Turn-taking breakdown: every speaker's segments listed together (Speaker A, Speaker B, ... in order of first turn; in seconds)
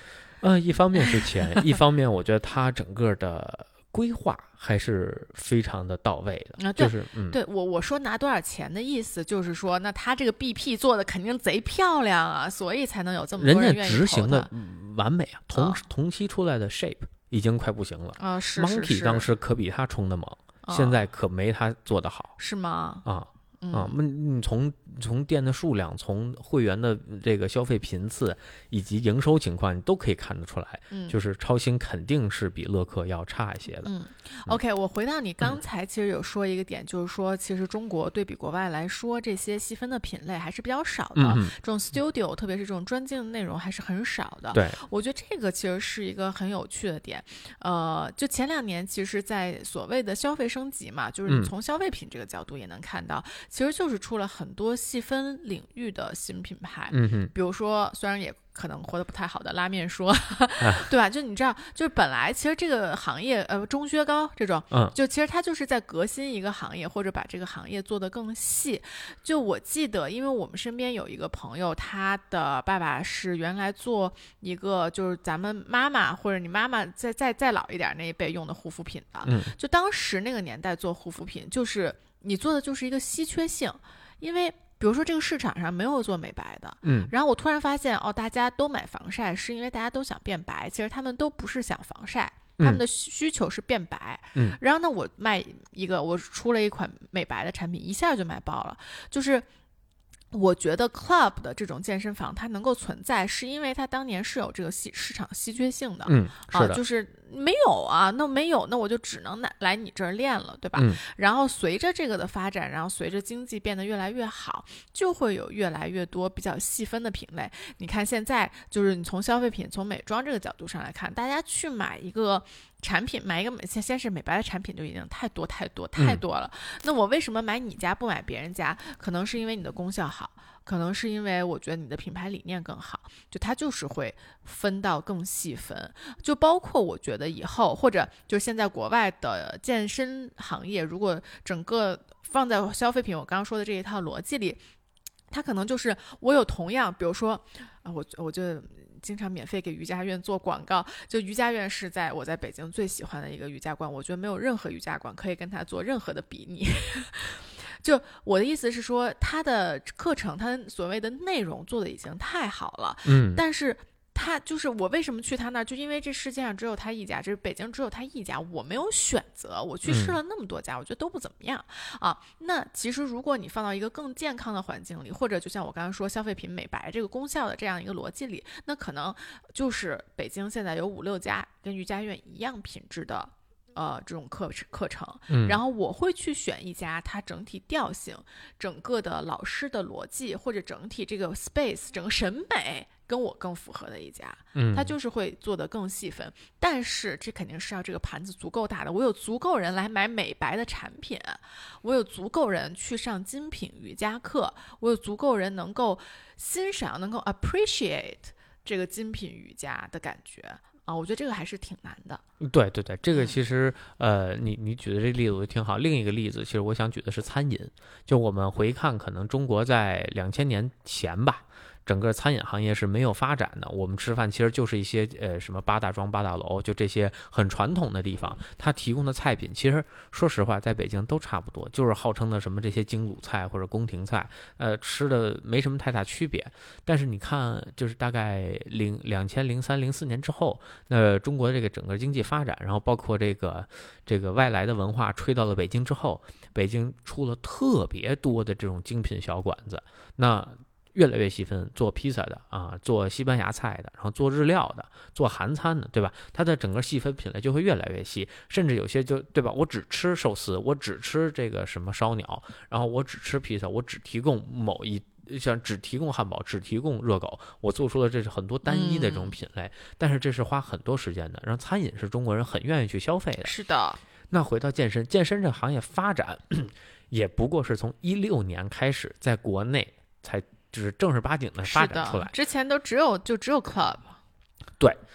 Speaker A: 0.4-7.4, 13.4-22.3, 23.0-33.9, 41.1-41.5, 44.5-44.8, 51.3-51.5, 56.9-57.3, 60.6-60.9, 79.2-79.5, 86.8-87.1, 106.1-106.8, 163.1-163.4, 169.9-170.2, 185.3-185.6, 194.6-194.9, 212.4-273.6, 274.3-282.3
Speaker B: 6.6-14.5, 15.5-15.8, 18.2-19.3, 20.6-21.0, 22.4-23.1, 23.6-23.9, 30.9-31.2, 33.8-99.5, 100.3-144.6, 145.3-212.2, 268.6-269.4, 273.4-274.0, 281.6-284.2